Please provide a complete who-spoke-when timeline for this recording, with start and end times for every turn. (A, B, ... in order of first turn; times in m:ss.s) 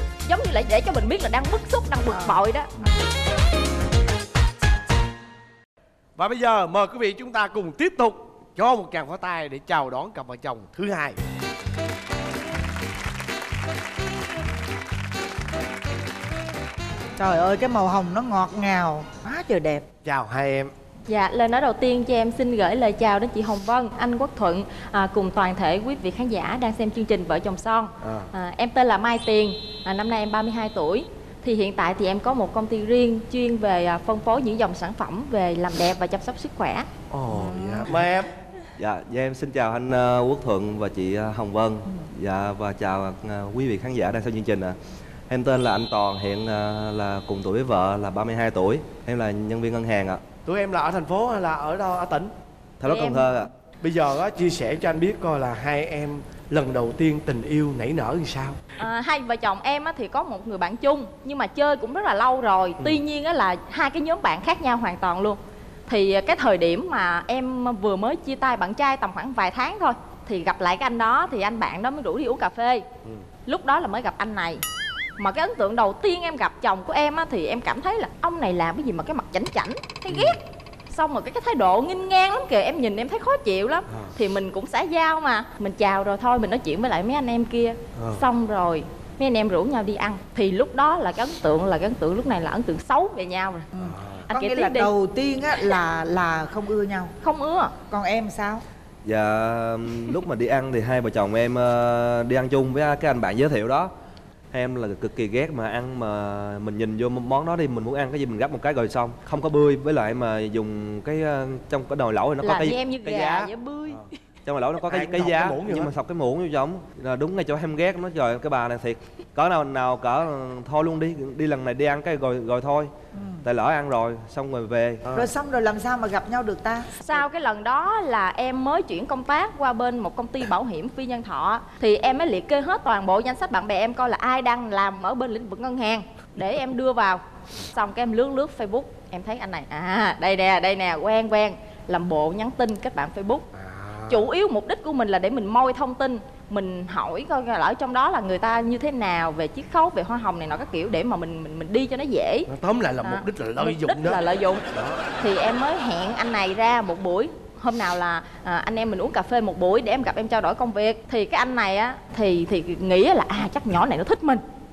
0:00.2-0:02.7 A
0:02.1-0:02.4 B
0:06.2-0:11.2 C
0:17.2-0:19.9 B
0:20.0-0:20.7 C
0:21.1-0:36.9 A
0:28.0-0:28.3 C
0:37.1-0:38.3 C
0:37.3-0:38.0 B
0:38.8-0:44.8 D
0:45.3-0:50.2 D
0:50.4-0:52.3 C
0:52.8-0:53.5 D
0:52.8-0:53.5 A
0:53.8-0:58.6 C
0:58.8-1:12.8 A
1:13.4-1:14.6 A
1:15.2-1:33.7 A
1:20.1-1:20.4 C
1:28.0-1:28.2 C
1:33.7-1:37.2 B
1:33.8-1:34.3 C
1:34.3-1:34.9 A
1:37.2-1:37.8 A
1:37.9-1:38.6 B
1:39.0-1:43.9 D
1:44.5-1:53.5 D
1:52.4-1:54.1 A
1:54.4-2:02.9 D
1:54.9-1:55.9 C
2:03.1-2:03.4 B
2:03.4-2:05.1 D
2:05.0-2:05.3 C
2:05.1-2:07.2 B
2:07.0-2:23.5 A
2:23.5-2:24.2 C
2:24.1-2:32.5 A
2:32.5-2:34.2 C
2:33.0-2:34.6 A
2:34.7-2:35.0 C
2:35.2-2:44.4 A